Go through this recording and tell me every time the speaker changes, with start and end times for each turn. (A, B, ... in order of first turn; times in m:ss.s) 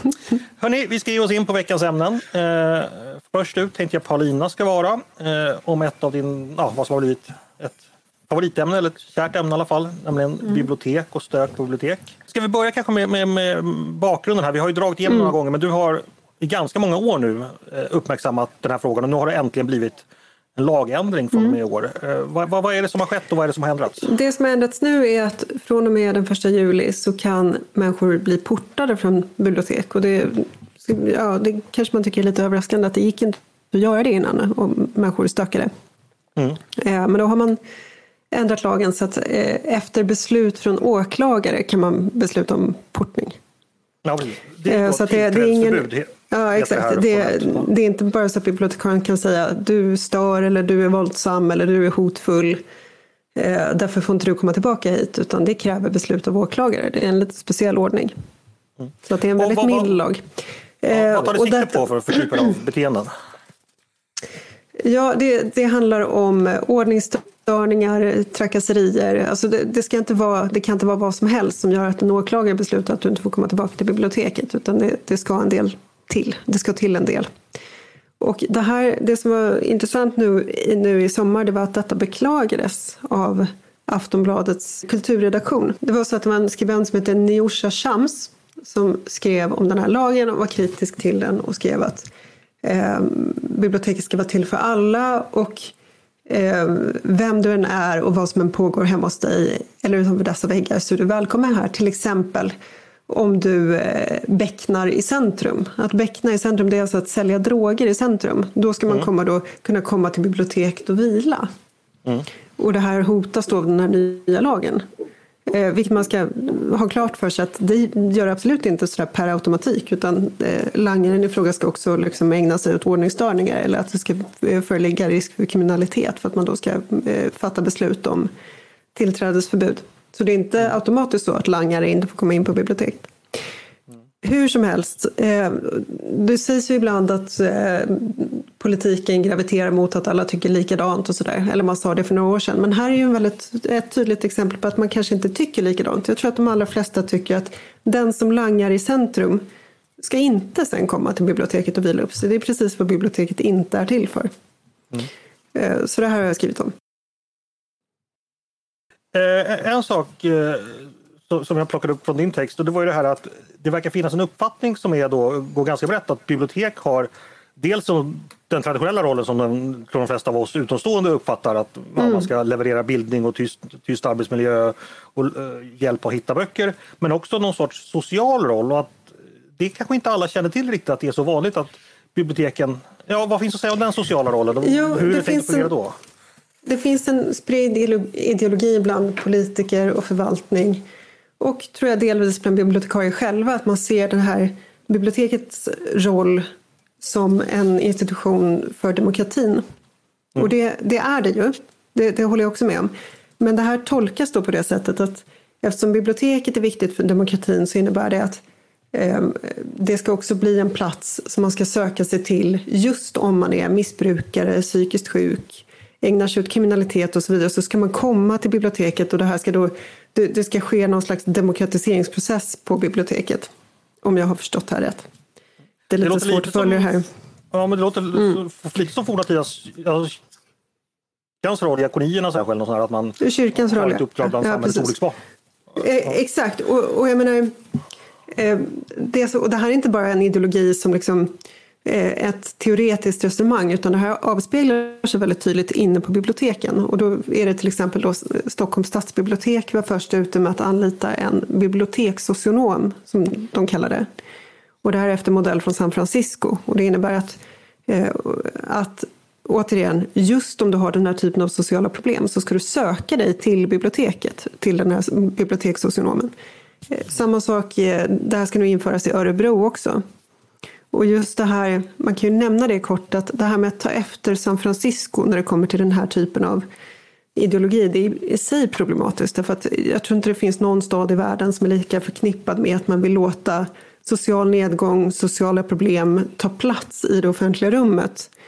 0:00.6-0:20.0 A
0:20.6-0:24.1 A
0:24.0-0:35.7 B
0:36.7-0:37.6 B
0:38.3-0:43.4 B
0:44.0-0:47.7 A
0:44.6-0:52.6 B
0:53.3-0:58.1 B
0:59.0-1:00.2 B
0:59.4-0:59.9 A
1:00.8-1:01.8 B
1:00.9-1:03.1 A
1:04.8-1:17.3 B
1:18.2-1:32.1 B
1:32.6-1:35.7 B
1:36.3-1:42.5 B
1:43.1-1:51.5 B
1:52.6-1:54.8 B
1:55.4-2:08.3 B
2:08.9-2:13.4 B
2:14.2-2:29.4 B
2:30.0-2:34.3 B
2:35.5-2:36.7 B
2:39.1-3:06.0 A
2:52.0-2:52.3 B
3:04.6-3:05.7 B
3:06.6-3:10.8 B
3:11.4-3:16.5 B
3:17.0-3:19.6 B
3:20.4-3:28.4 B
3:28.9-3:43.5 B
3:44.0-3:45.1 B
3:45.9-3:47.1 B
3:46.0-3:46.9 A
3:47.5-3:50.2 A
3:51.4-3:55.2 A
3:53.2-3:54.9 B
3:55.8-3:57.6 B
3:58.3-4:01.3 B
4:01.8-4:14.1 B
4:14.8-4:26.3 B
4:26.9-4:30.0 B
4:30.9-4:36.6 B
4:37.4-4:48.3 B